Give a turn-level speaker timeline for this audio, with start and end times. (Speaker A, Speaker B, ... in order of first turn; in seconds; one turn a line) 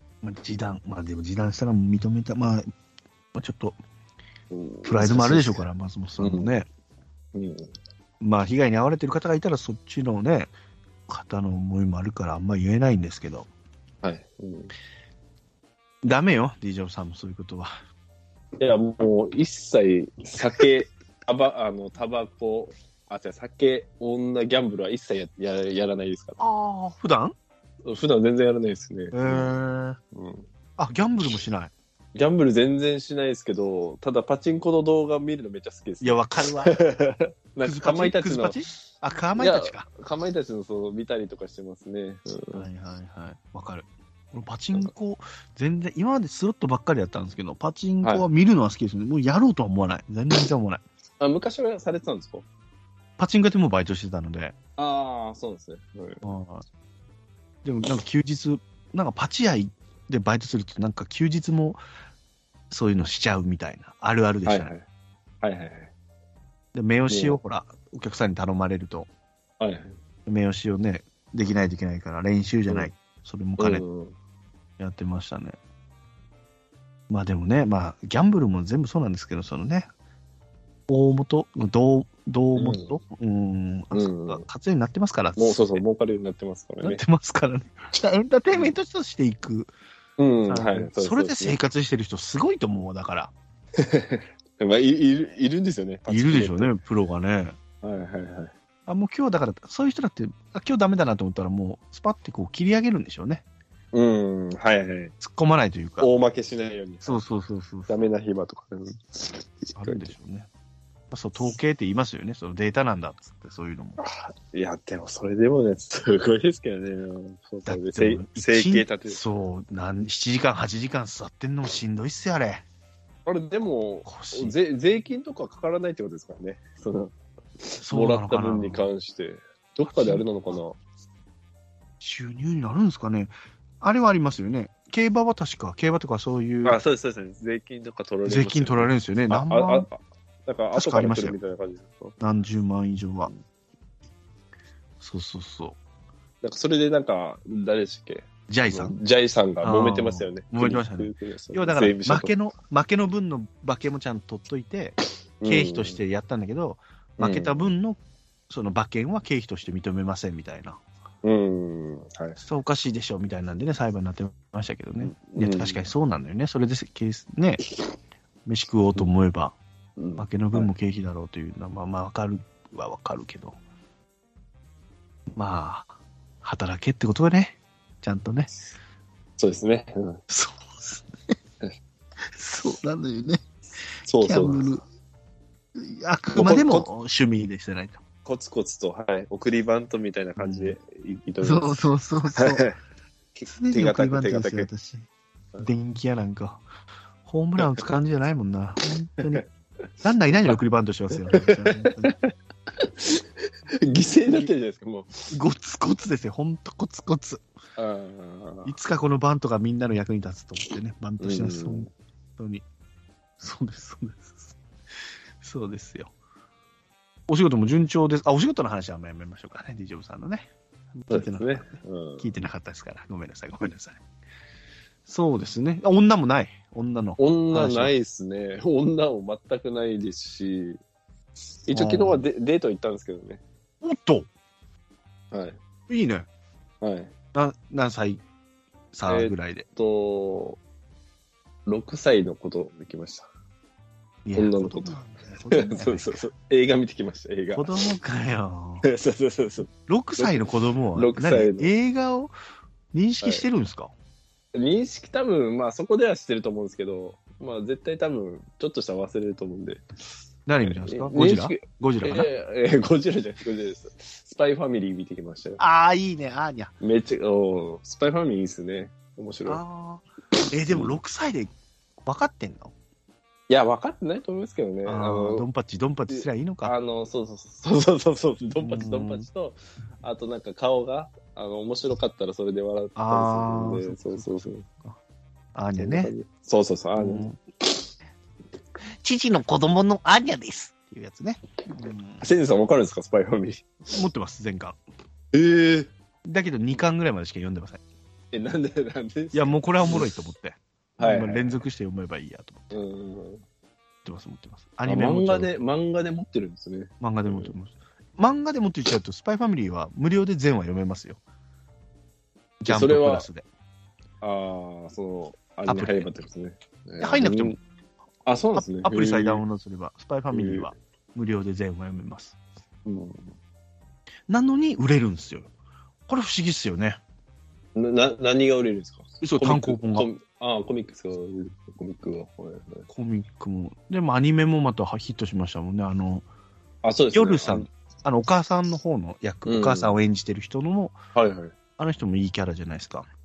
Speaker A: 0.2-2.7
Speaker A: 3.3-3.8
Speaker B: 4.5-5.7
Speaker A: 4.8-6.7
Speaker B: 6.2-6.5
Speaker B: 7.3-7.7
Speaker A: 8.2-10.5
Speaker A: 11.1-13.5
Speaker B: 14.0-14.7
Speaker A: 16.0-17.7
Speaker B: 18.6-26.4
Speaker A: 26.4-27.3
Speaker B: 27.8-29.5
Speaker A: 29.1-30.0
Speaker B: 30.1-30.5
Speaker A: 30.8-31.7
Speaker B: 32.1-38.6
Speaker A: 36.0-36.8
Speaker A: 37.6-39.9
Speaker B: 39.4-42.6
Speaker A: 42.5-50.8
Speaker B: 51.2-52.5
Speaker A: 53.2-54.5
Speaker B: 54.8-56.2
Speaker A: 56.2-56.6
Speaker A: 57.6-61.8
Speaker A: 62.7-64.7
Speaker B: 64.5-64.8
Speaker B: 65.4-65.9
Speaker A: 66.7-69.1
Speaker B: 67.1-67.4
Speaker B: 69.6-70.0
Speaker A: 70.3-73.8
Speaker B: 73.6-74.2
Speaker A: 74.8-75.6
Speaker A: 77.1-79.9
Speaker A: 80.9-85.8
Speaker B: 82.6-83.0
Speaker B: 83.9-84.5
Speaker B: 85.4-87.0
Speaker A: 86.8-89.7
Speaker B: 90.2-91.6
Speaker A: 90.5-93.3
Speaker B: 93.8-96.7
Speaker A: 96.1-97.6
Speaker B: 97.8-98.5
Speaker A: 98.9-103.4
Speaker B: 103.9-105.1
Speaker A: 105.2-106.1
Speaker B: 106.0-107.2
Speaker A: 107.0-108.0
Speaker B: 107.9-110.1
Speaker A: 109.8-110.5
Speaker A: 111.1-114.0
Speaker B: 114.0-119.2
Speaker A: 117.7-122.7
Speaker B: 123.3-130.8
Speaker A: 124.1-124.5
Speaker A: 127.8-128.9
Speaker A: 129.9-130.2
Speaker A: 132.0-136.8
Speaker B: 136.7-142.2
Speaker A: 138.3-139.9
Speaker A: 140.7-141.4
Speaker A: 142.2-143.3
Speaker A: 145.0-145.8
Speaker B: 146.4-152.3
Speaker A: 148.5-148.9
Speaker A: 149.6-158.0
Speaker B: 155.4-156.0
Speaker B: 157.2-157.7
Speaker A: 158.5-160.8
Speaker B: 161.2-162.4
Speaker A: 162.4-167.6
Speaker B: 165.0-165.8
Speaker A: 168.5-169.6
Speaker B: 170.0-170.7
Speaker A: 170.2-173.6
Speaker A: 175.4-175.9
Speaker A: 176.4-178.5
Speaker B: 179.4-180.2
Speaker A: 180.3-181.1
Speaker A: 182.3-183.4
Speaker B: 184.1-184.7
Speaker A: 184.2-184.8
Speaker A: 185.8-188.0
Speaker B: 186.3-186.9
Speaker B: 188.2-192.8
Speaker A: 190.4-190.8
Speaker A: 191.4-192.7
Speaker B: 193.4-194.7
Speaker A: 193.5-195.1
Speaker A: 195.6-196.6
Speaker A: 197.2-199.4
Speaker A: 200.0-202.2
Speaker B: 201.1-205.2
Speaker A: 205.3-207.4
Speaker B: 207.8-208.7
Speaker A: 208.7-212.6
Speaker B: 211.2-211.9
Speaker A: 213.4-214.6
Speaker A: 215.4-216.1
Speaker A: 217.3-224.0
Speaker B: 221.1-222.3
Speaker A: 225.1-227.9
Speaker B: 227.2-230.8
Speaker B: 231.7-233.4
Speaker A: 231.7-232.2
Speaker A: 233.8-234.3
Speaker B: 235.3-235.6
Speaker A: 235.9-236.3
Speaker B: 236.8-237.1
Speaker A: 237.3-238.2
Speaker A: 238.9-239.7
Speaker B: 239.1-240.6
Speaker B: 241.7-243.3
Speaker A: 244.2-246.2
Speaker B: 244.4-245.0
Speaker B: 245.5-247.7
Speaker A: 247.5-248.9
Speaker B: 248.8-251.7
Speaker A: 249.9-252.3
Speaker A: 252.9-253.9
Speaker B: 254.5-259.9
Speaker A: 260.5-262.3
Speaker B: 260.6-265.6
Speaker A: 265.6-266.7
Speaker B: 266.8-269.6
Speaker A: 269.5-271.5
Speaker B: 270.7-271.0
Speaker A: 272.1-272.7
Speaker B: 273.5-275.4
Speaker A: 274.9-276.8
Speaker B: 276.1-284.7
Speaker A: 278.6-279.3
Speaker A: 283.0-285.0
Speaker A: 285.6-286.1
Speaker B: 285.8-287.3
Speaker A: 287.0-287.4
Speaker A: 289.0-292.3
Speaker B: 292.2-293.7
Speaker A: 293.9-294.8
Speaker B: 295.3-295.9
Speaker A: 296.3-297.8
Speaker B: 298.3-300.1
Speaker A: 299.3-302.8
Speaker B: 301.0-301.6
Speaker B: 302.7-303.4
Speaker A: 304.1-305.5
Speaker B: 304.9-307.5
Speaker A: 307.0-311.2
Speaker A: 312.6-313.5
Speaker B: 312.7-313.3
Speaker B: 314.2-317.6
Speaker A: 315.7-316.1
Speaker A: 317.0-317.6
Speaker B: 318.3-319.4
Speaker A: 318.6-322.4
Speaker B: 320.3-320.7
Speaker B: 322.9-323.3
Speaker A: 324.3-325.5
Speaker A: 326.1-327.0
Speaker B: 327.8-332.9
Speaker A: 329.2-330.1
Speaker A: 332.9-336.3
Speaker B: 336.8-337.7
Speaker A: 337.1-340.9
Speaker B: 339.4-340.0
Speaker B: 341.1-341.6
Speaker A: 341.8-343.1